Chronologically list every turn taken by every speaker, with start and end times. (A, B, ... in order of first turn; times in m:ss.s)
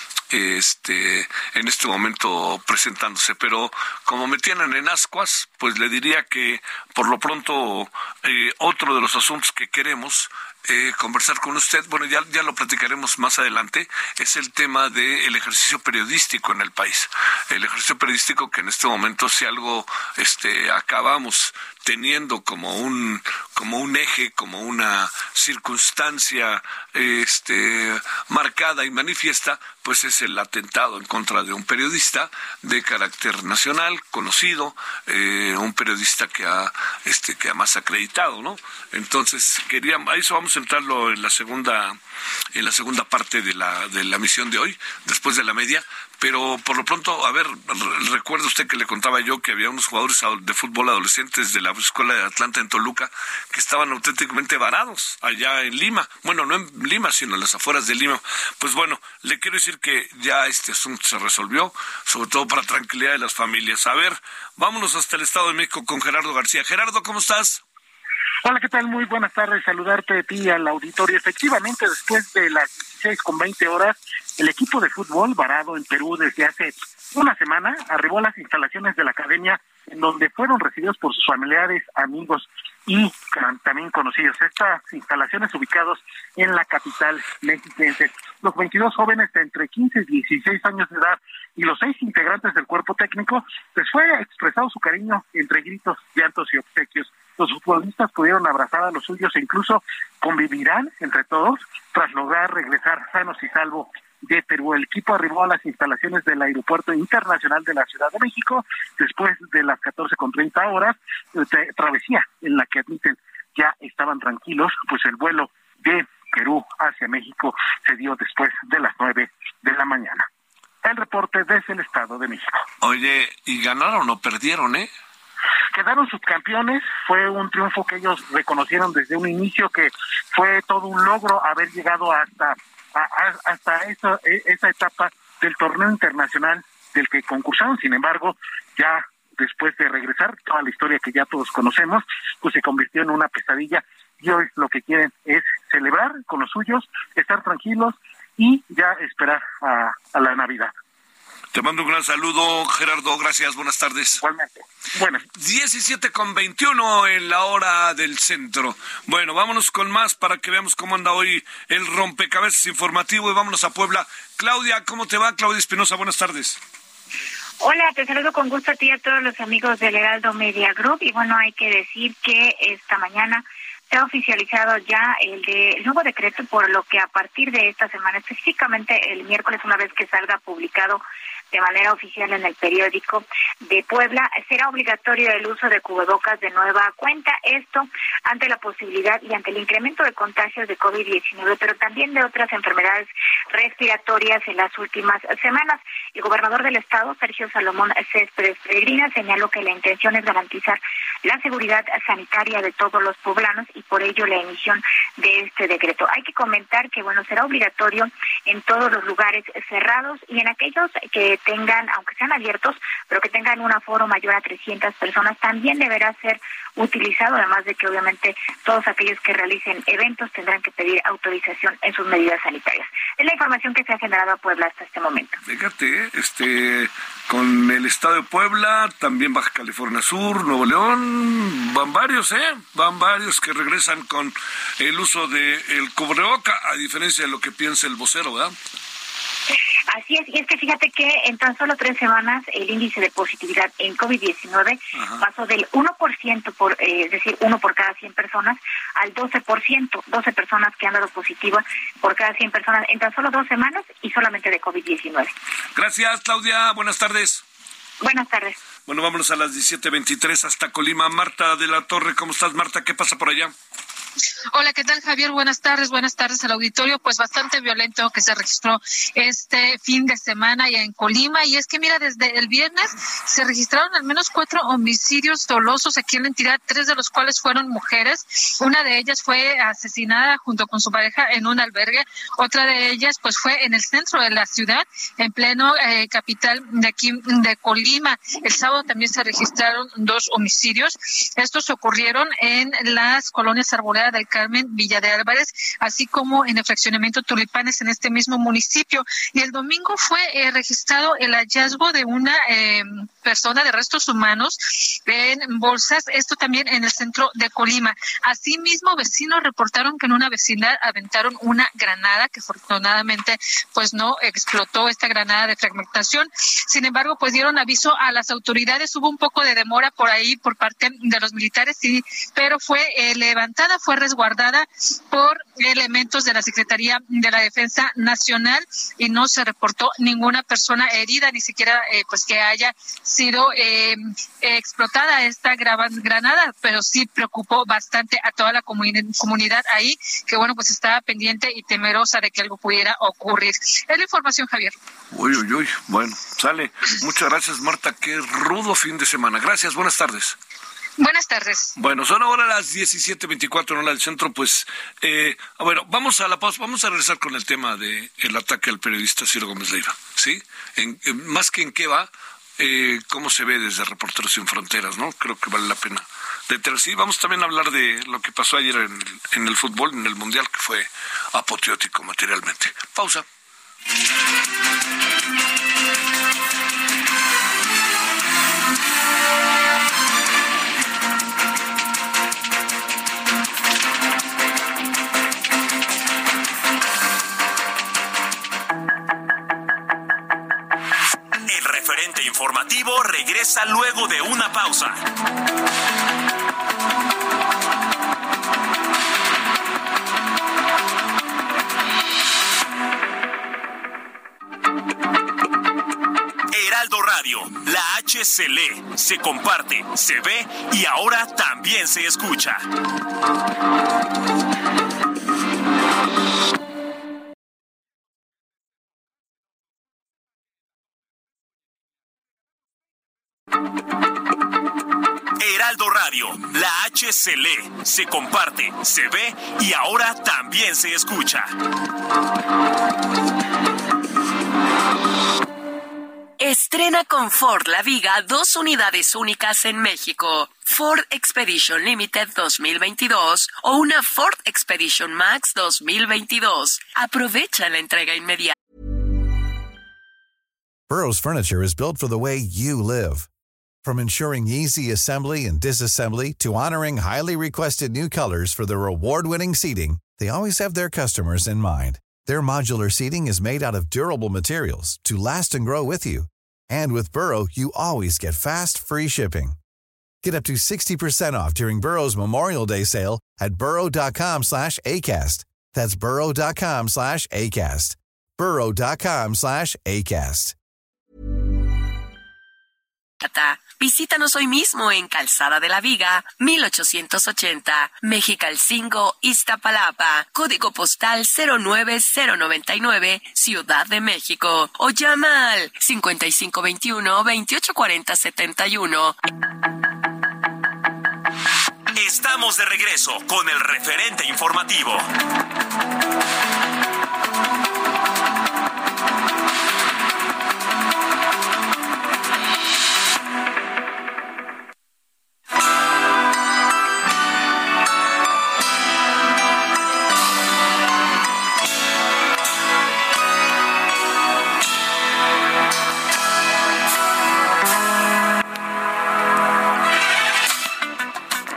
0:00.3-0:42.0 A
0:42.5-1:07.6 A
1:08.4-2:00.3 B
2:00.8-2:02.6 B
2:02.8-2:04.9 A
2:05.7-2:30.7 B
2:31.5-2:34.2 A
2:34.2-2:35.2 B
2:35.4-2:46.6 A
2:47.6-3:45.4 C
3:45.4-3:58.5 A
3:59.9-4:15.3 C
4:15.8-4:17.4 A
4:18.0-4:18.6 C
4:18.9-4:23.5 A
4:24.5-5:44.8 D
5:45.1-5:50.4 A
5:51.0-5:51.7 D
5:51.8-6:13.2 A
6:31.5-6:35.0 E
6:46.5-6:52.6 E
7:05.4-7:11.5 E
7:16.4-7:28.5 F
7:30.9-7:33.3 G
7:33.8-7:49.6 G
7:50.2-8:00.6 G
8:03.2-8:19.2 F
8:21.9-8:25.1 E